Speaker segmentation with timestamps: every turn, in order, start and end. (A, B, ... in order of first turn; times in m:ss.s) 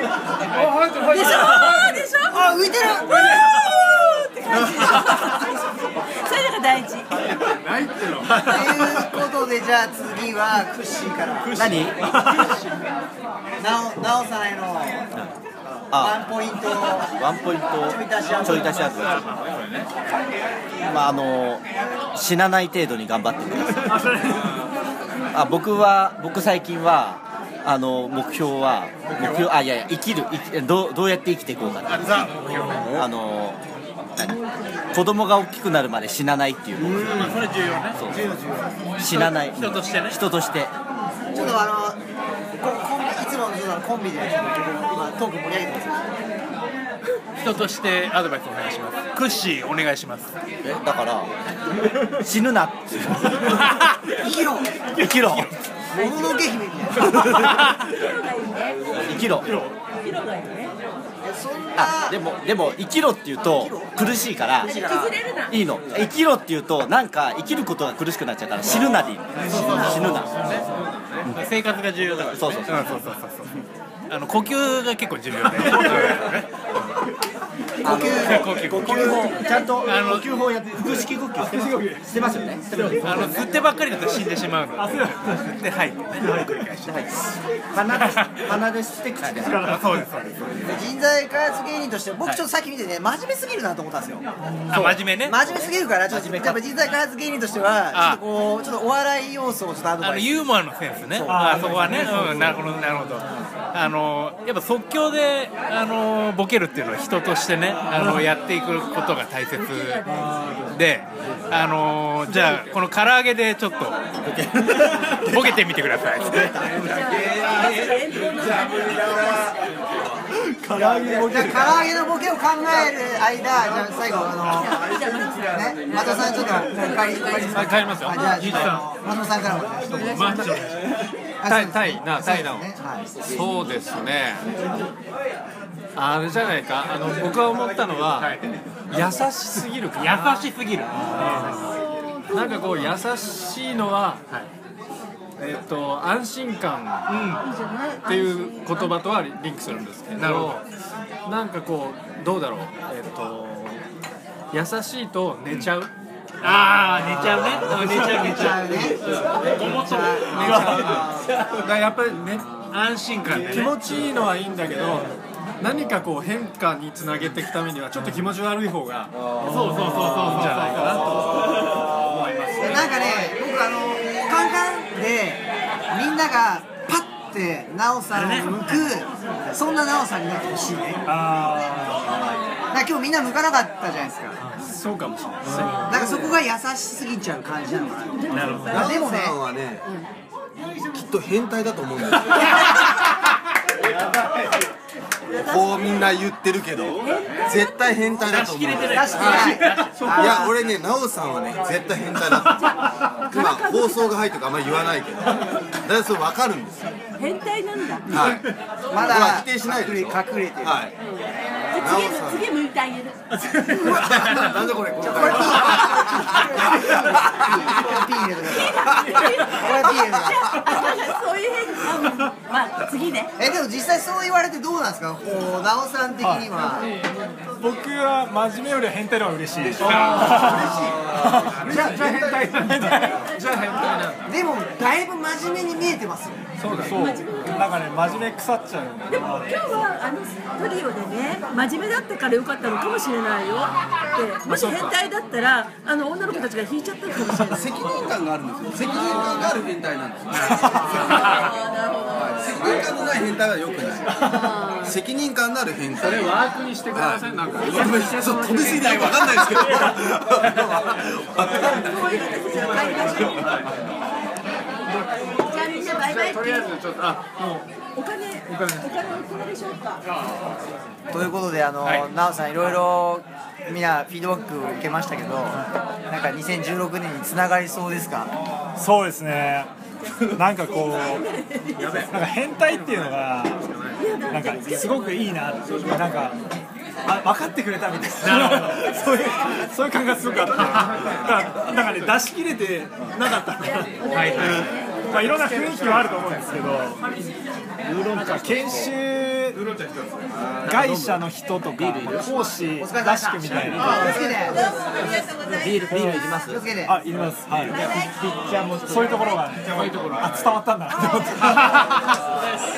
0:00.6-0:02.0 A
0:01.1-0:02.5 B
0:01.2-0:01.5 C
0:02.2-0:03.7 D
0:03.1-0:05.6 B
0:06.1-0:07.1 B
0:07.2-0:08.4 A
0:08.3-0:12.2 D
0:11.5-0:12.0 E
0:13.6-0:15.0 D
0:15.9-0:16.2 E
0:15.9-0:17.2 D
0:17.1-0:19.4 E
0:17.8-0:18.8 D
0:20.8-0:24.0 E
0:23.8-0:24.6 F
0:25.3-0:33.6 E
0:31.9-0:32.9 C
0:34.2-0:38.2 E
0:36.8-0:37.4 D
0:37.0-0:38.0 C
0:38.0-0:38.7 D
0:39.0-0:40.7 E
0:39.0-0:40.2 C
0:41.3-0:42.0 D
0:42.6-0:46.2 D
0:47.4-0:50.3 C
0:50.6-0:51.3 E
0:52.1-0:53.4 E
0:53.5-0:53.9 C
0:54.0-0:54.8 D
0:55.0-0:55.5 E
0:55.9-0:57.4 D
0:56.0-0:56.3 B
0:57.2-0:57.8 C
0:57.8-0:58.9 B
0:59.0-0:59.5 E
0:59.4-0:59.8 F
1:00.0-1:00.7 B
1:01.2-1:02.2 D
1:01.8-1:04.7 E
1:03.4-1:04.0 D
1:04.6-1:05.2 D
1:04.8-1:05.5 B
1:05.5-1:10.5 E
1:09.4-1:16.9 C
1:09.5-1:10.1 D
1:12.3-1:13.0 E
1:15.7-1:16.0 F
1:17.8-1:23.6 D
1:17.8-1:18.5 E
1:17.9-1:21.0 C
1:19.4-1:19.7 B
1:21.5-1:22.0 F
1:22.0-1:22.8 E
1:22.7-1:27.0 C
1:24.8-1:25.6 F
1:26.2-1:26.6 F
1:26.8-1:27.1 E
1:27.7-1:29.8 D
1:27.9-1:28.5 C
1:29.4-1:30.1 F
1:29.6-1:30.6 C
1:30.6-1:40.6 D
1:34.4-1:35.0 F
1:34.7-1:35.5 C
1:35.5-1:36.6 E
1:37.9-1:38.2 C
1:40.0-1:50.0 C
1:41.1-1:42.1 D
1:41.3-1:42.6 F
1:48.0-1:48.2 F
1:50.0-1:50.8 F
1:50.6-1:54.0 C
1:54.2-1:55.4 E
1:55.0-1:56.7 C
1:56.8-1:59.4 B
2:00.4-2:01.8 F
2:00.7-2:10.7 D
2:04.6-2:08.4 B
2:07.4-2:08.2 A
2:08.2-2:08.9 C
2:10.0-2:10.8 C
2:10.2-2:10.5 A
2:11.4-2:13.1 D
2:11.4-2:12.7 A
2:13.3-2:14.0 C
2:13.9-2:14.4 B
2:16.0-2:21.7 A
2:18.2-2:18.4 C
2:20.0-2:21.7 C
2:21.5-2:21.8 B
2:22.3-2:24.3 A
2:25.4-2:30.6 A
2:27.1-2:27.5 C
2:30.2-2:30.6 C
2:31.3-2:33.8 A
2:34.5-2:35.9 A
2:35.6-2:35.9 C
2:36.4-2:41.2 C
2:37.1-2:41.3 D
2:40.2-2:42.7 A
2:42.7-2:43.8 C
2:43.4-2:51.8 A
2:49.4-2:51.9 C
2:52.6-3:01.1 D
2:58.1-2:58.6 C
3:01.0-3:02.4 F
3:02.7-3:04.4 D
3:04.6-3:06.3 A
3:05.5-3:06.0 C
3:05.8-3:09.4 D
3:08.3-3:08.8 C
3:08.3-3:09.0 B
3:08.5-3:09.8 G
3:10.9-3:12.9 G
3:15.3-3:27.0 G
3:15.4-3:15.8 B
3:18.2-3:20.5 C
3:18.9-3:20.5 D
3:23.3-3:24.2 B
3:27.2-3:28.1 B
3:28.1-3:31.0 G
3:28.9-3:30.9 D
3:31.0-3:33.2 B
3:31.7-3:32.5 G
3:33.6-3:37.8 G
3:35.0-3:40.8 D
3:38.7-3:39.3 G
3:40.4-3:43.3 B
3:43.4-3:46.9 D
3:46.2-3:46.5 F
3:47.6-3:51.9 F
3:49.8-3:51.8 C
3:49.8-3:53.0 D
3:51.7-3:52.7 B
3:51.9-3:52.3 A
3:52.6-3:53.2 F
3:53.2-3:53.7 B
3:53.4-3:54.0 A
3:54.3-3:56.4 D
3:56.6-3:57.7 B
3:56.6-3:57.5 A
3:56.8-3:59.7 F
3:59.2-4:07.9 B
4:04.6-4:04.9 A
4:07.4-4:23.7 G
4:10.4-4:11.2 A
4:16.0-4:19.8 A
4:21.6-4:23.6 B
4:25.0-4:26.8 B
4:25.1-4:27.6 A
4:28.0-4:30.0 B
4:28.5-4:28.8 A
4:31.1-4:38.3 D
4:31.8-4:32.1 C
4:38.8-4:39.7 F
4:40.3-4:41.3 F
4:41.9-4:43.8 F
4:44.0-4:44.7 B
4:44.3-4:46.4 F
4:47.1-4:57.0 F
4:48.2-4:48.9 C
4:54.1-4:54.8 C
4:55.2-4:56.1 A
4:58.0-4:58.3 E
4:58.2-4:59.6 F
5:00.6-5:04.0 F
5:00.6-5:01.0 E
5:01.8-5:02.2 E
5:02.8-5:04.8 D
5:05.4-5:06.6 E
5:06.0-5:07.0 D
5:06.9-5:07.9 F
5:07.8-5:09.1 D
5:08.8-5:12.2 F